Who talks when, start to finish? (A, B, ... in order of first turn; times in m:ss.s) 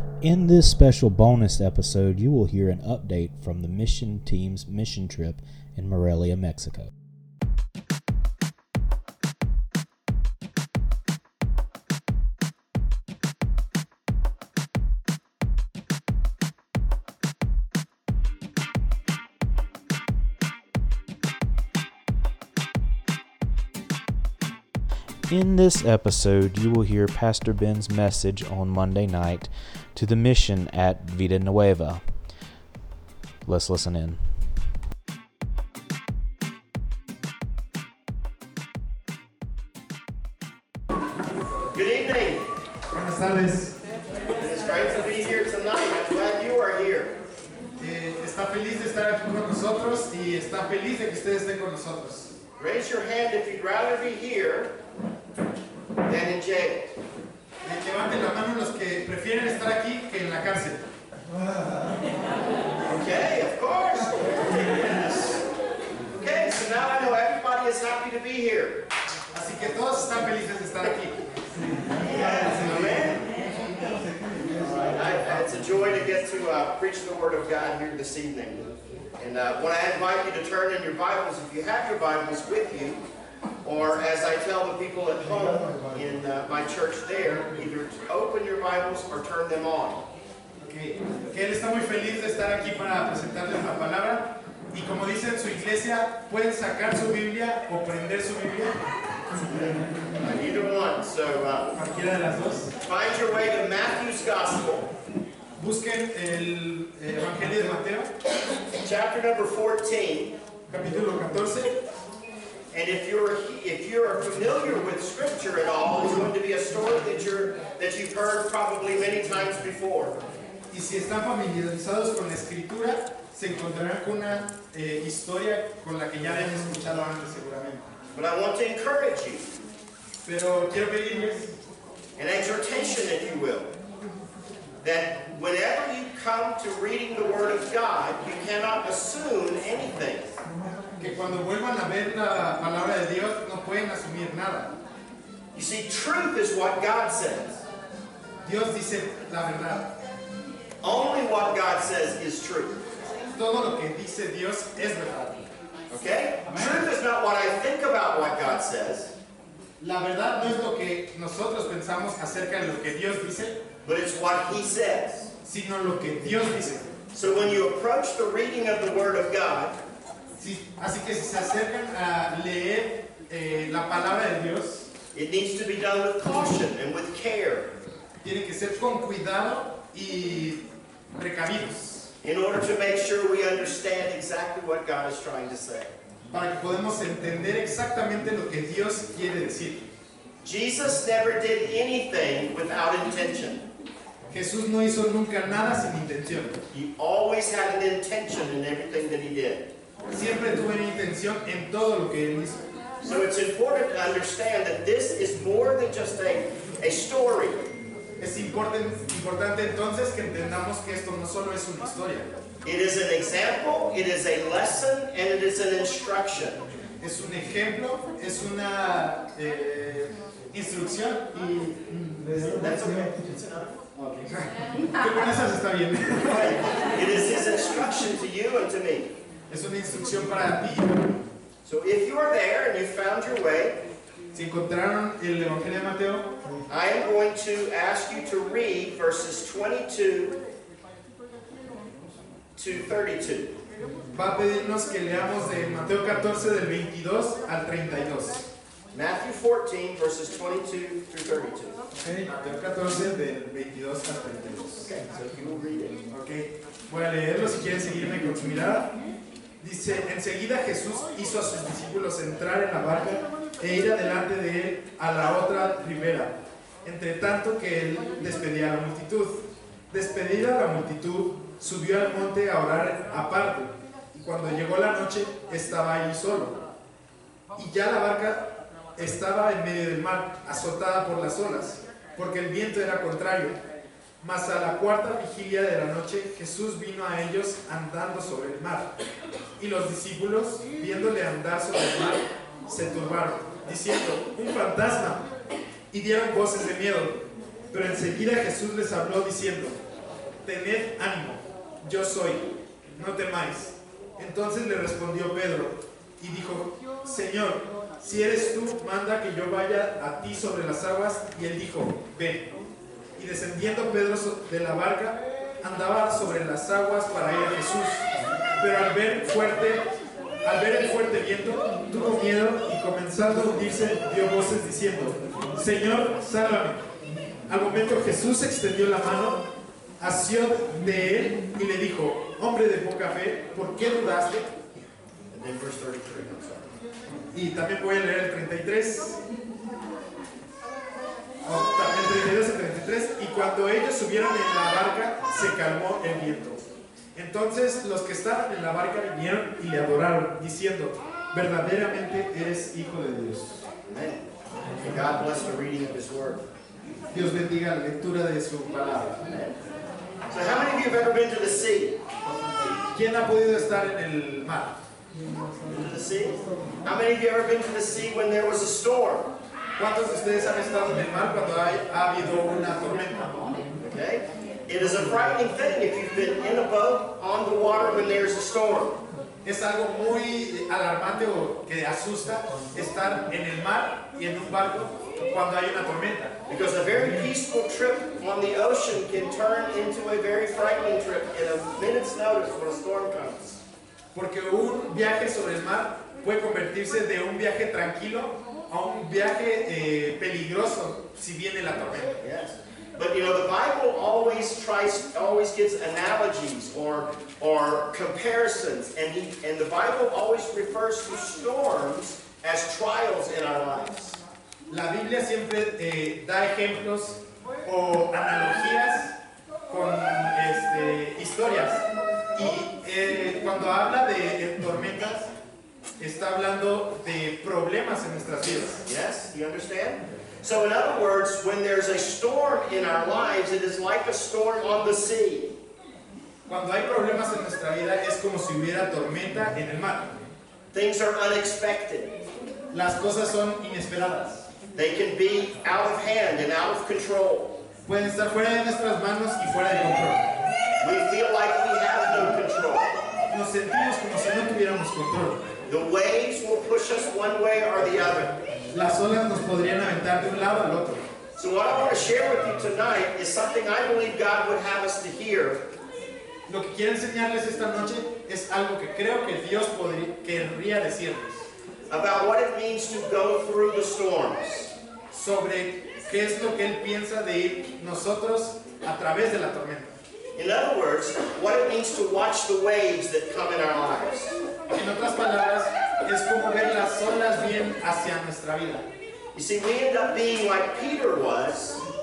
0:00.2-0:06.9 A
0:25.3-0:32.0 A
0:33.4-0:34.3 A
0:41.7-0:42.4 B
0:42.9-0:43.8 C
0:44.3-0:47.2 B
0:47.8-0:52.4 C
0:52.6-0:54.8 B
0:56.1-0:56.9 B
0:57.6-1:00.8 C
1:02.8-1:05.4 B
1:06.2-1:08.8 B
1:09.3-1:11.2 C
1:12.0-1:13.3 B
1:12.3-1:13.7 C
1:14.6-1:23.0 B
1:23.6-1:30.1 B
1:30.6-1:38.8 C
1:39.5-1:41.7 B
1:41.8-1:42.7 C
1:42.8-1:44.9 B
1:45.6-1:48.1 C
1:48.8-1:50.4 B
1:50.7-1:51.8 C
1:52.7-2:00.2 B
2:00.7-2:07.9 C
2:08.1-2:09.5 B
2:10.2-2:11.5 C
2:12.2-2:13.7 B
2:14.8-2:20.4 B
2:21.0-2:24.7 C
2:25.5-2:27.6 B
2:28.4-2:29.9 C
2:30.8-2:32.8 B
2:33.3-2:35.5 C
2:35.9-2:39.1 B
2:39.8-2:43.6 C
2:43.8-2:45.3 B
2:45.4-2:46.9 C
2:47.1-2:49.8 B
2:50.4-2:54.9 C
2:55.1-2:57.7 B
2:58.2-3:02.1 C
3:02.2-3:06.0 B
3:06.3-3:09.9 C
3:10.4-3:13.7 B
3:14.3-3:16.6 C
3:16.7-3:19.7 B
3:20.1-3:22.6 C
3:23.0-3:27.7 B
3:28.2-3:32.3 C
3:32.6-3:36.6 B
3:37.0-3:42.6 C
3:42.5-3:43.8 B
3:44.0-3:46.8 C
3:46.3-3:49.1 B
3:49.5-3:51.2 C
3:51.6-3:53.8 B
3:54.3-3:56.3 C
3:56.7-4:00.4 B
4:02.6-4:03.6 B
4:04.1-4:08.5 C
4:08.9-4:11.8 B
4:11.9-4:14.9 C
4:14.8-4:16.0 B
4:16.1-4:18.9 C
4:19.6-4:36.6 C
4:37.6-4:43.6 C
4:44.2-4:48.9 C
4:49.6-4:55.3 C
4:55.9-4:59.8 C
5:00.4-5:12.5 C
5:13.2-5:18.1 C
5:18.6-5:19.9 C
5:20.4-5:26.8 C
5:27.5-5:29.4 C
5:30.0-5:34.6 C
5:35.3-5:36.7 B
5:37.3-5:39.2 C
5:41.4-5:46.6 C
5:47.1-5:53.7 C
5:53.9-5:56.4 B
5:57.1-5:59.2 C
5:59.3-5:59.6 B
6:00.3-6:02.0 B
6:02.9-6:04.8 C
6:05.7-6:09.3 B
6:09.8-6:13.6 C
6:13.8-6:19.0 B
6:19.4-6:26.4 C
6:26.5-6:33.6 B
6:34.1-6:42.2 C
6:42.2-6:54.2 B
6:54.7-6:59.2 C
6:59.7-7:05.3 C
7:06.0-7:08.8 C
7:08.8-7:15.6 B
7:16.5-7:20.1 C
7:20.7-7:22.2 B
7:22.7-7:24.5 C
7:24.8-7:27.6 B
7:27.9-7:30.3 C
7:30.8-7:33.0 B
7:33.3-7:35.5 C
7:35.7-7:38.4 B
7:38.7-7:41.0 C
7:41.4-7:45.6 B
7:46.5-7:51.5 C
7:51.9-7:54.8 B
7:55.1-8:00.0 C
8:00.4-8:04.4 B
8:04.7-8:08.8 C
8:09.3-8:11.8 B